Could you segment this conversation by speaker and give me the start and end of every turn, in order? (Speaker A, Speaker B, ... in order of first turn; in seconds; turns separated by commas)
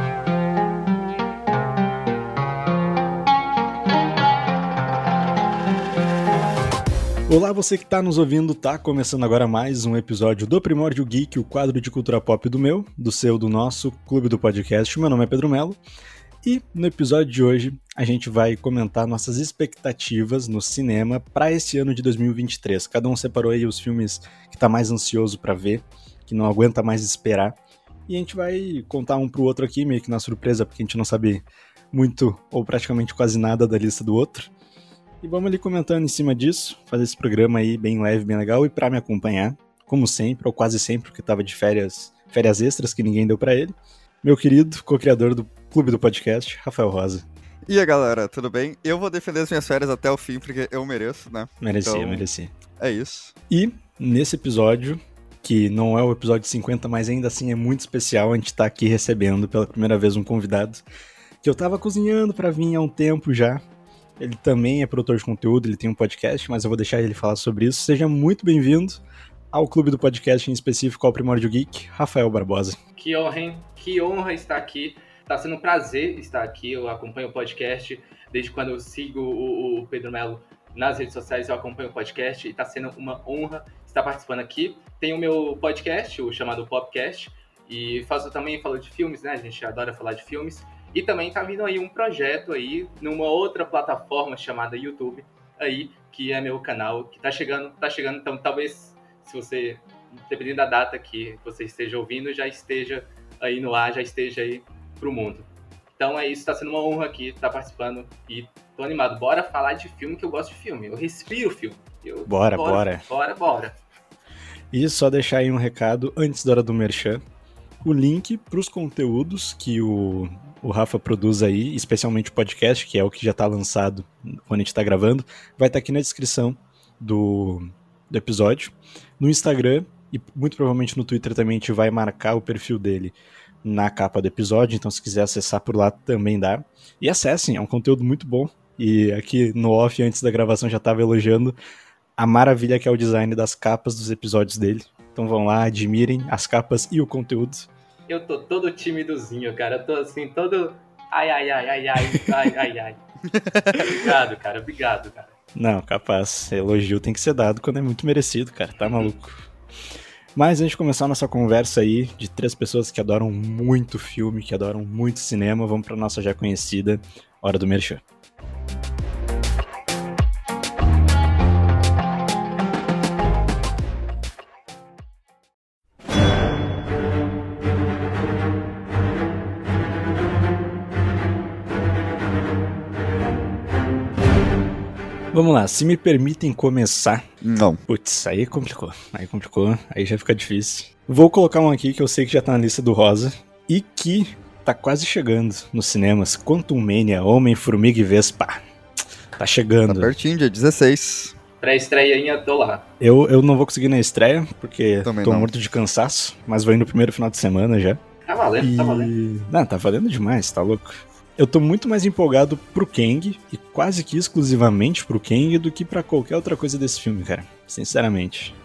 Speaker A: 7.3-15.8, Speaker A: 16.4-27.6, Speaker A: 28.1-34.5, Speaker A: 35.2-47.2, Speaker B: 47.7-52.2, Speaker A: 51.6-52.5, Speaker B: 52.8-53.3, Speaker A: 53.5-60.8, Speaker A: 61.4-63.6, Speaker A: 64.2-72.8, Speaker C: 73.0-113.8, Speaker A: 112.3-113.0, Speaker A: 114.7-117.2, Speaker A: 117.8-141.6, Speaker A: 142.2-147.7, Speaker C: 148.1-153.0, Speaker B: 153.3-153.9, Speaker C: 153.9-155.3, Speaker A: 155.6-159.4, Speaker A: 160.3-168.0, Speaker A: 185.3-187.3, Speaker B: 187.4-187.8, Speaker A: 187.9-198.6, Speaker A: 199.4-200.1, Speaker B: 199.9-201.3, Speaker C: 201.6-202.8, Speaker A: 203.0-208.0, Speaker B: 205.0-205.5, Speaker C: 208.3-209.1, Speaker A: 208.6-218.6